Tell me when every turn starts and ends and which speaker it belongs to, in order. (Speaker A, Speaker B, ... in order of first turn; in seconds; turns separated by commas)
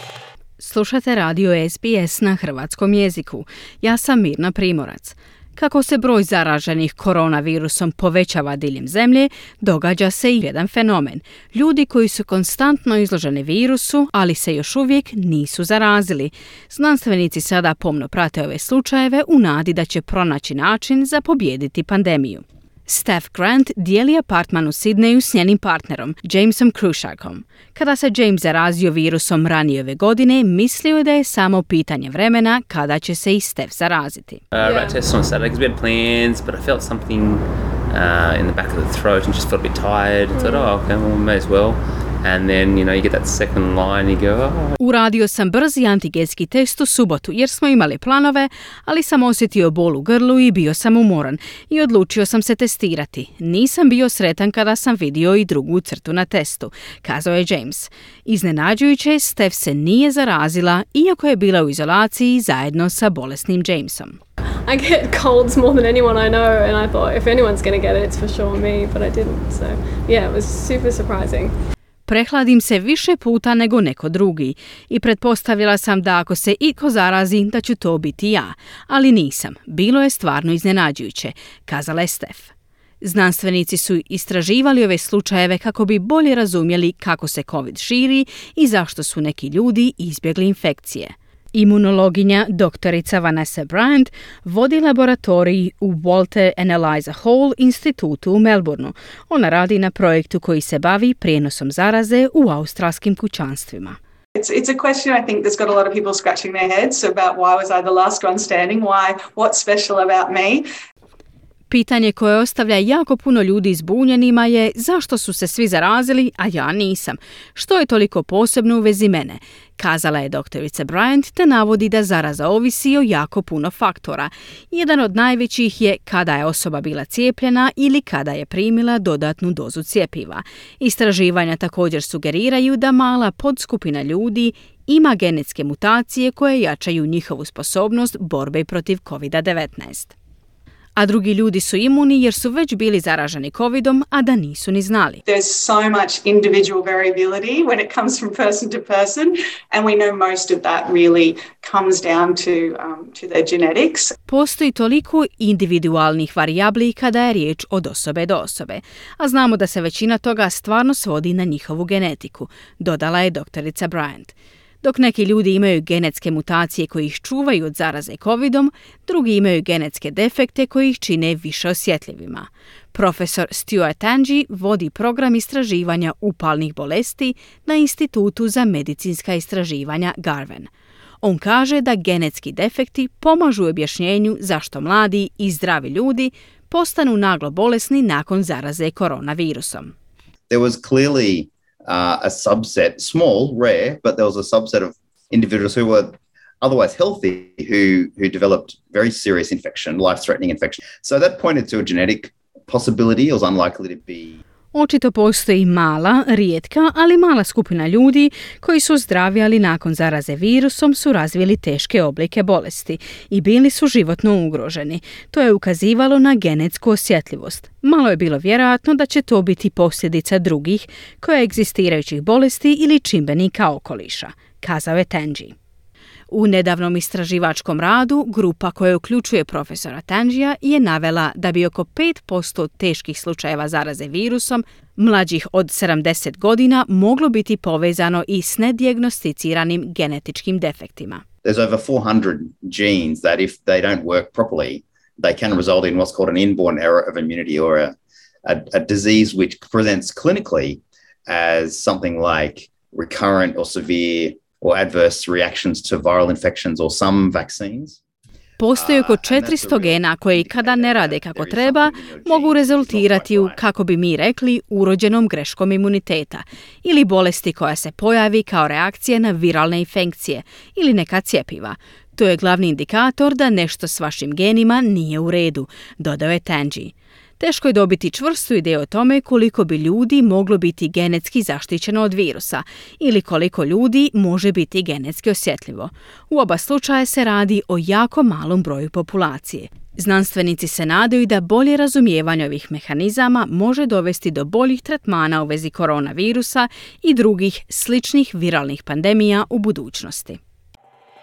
Speaker A: 0.6-34.4, Speaker B: 34.5-44.7, Speaker C: 34.6-35.0, Speaker C: 40.3-40.7, Speaker A: 44.8-64.2, Speaker C: 64.7-71.5, Speaker A: 72.1-104.0, Speaker D: 104.4-110.7, Speaker A: 111.7-140.2, Speaker A: 141.0-145.2, Speaker D: 145.3-154.1, Speaker A: 154.3-180.7, Speaker A: 181.2-189.9, Speaker E: 190.5-204.4, Speaker A: 204.7-225.6, Speaker A: 226.3-241.2, Speaker E: 241.4-258.0, Speaker A: 258.6-300.4, Speaker E: 258.8-263.6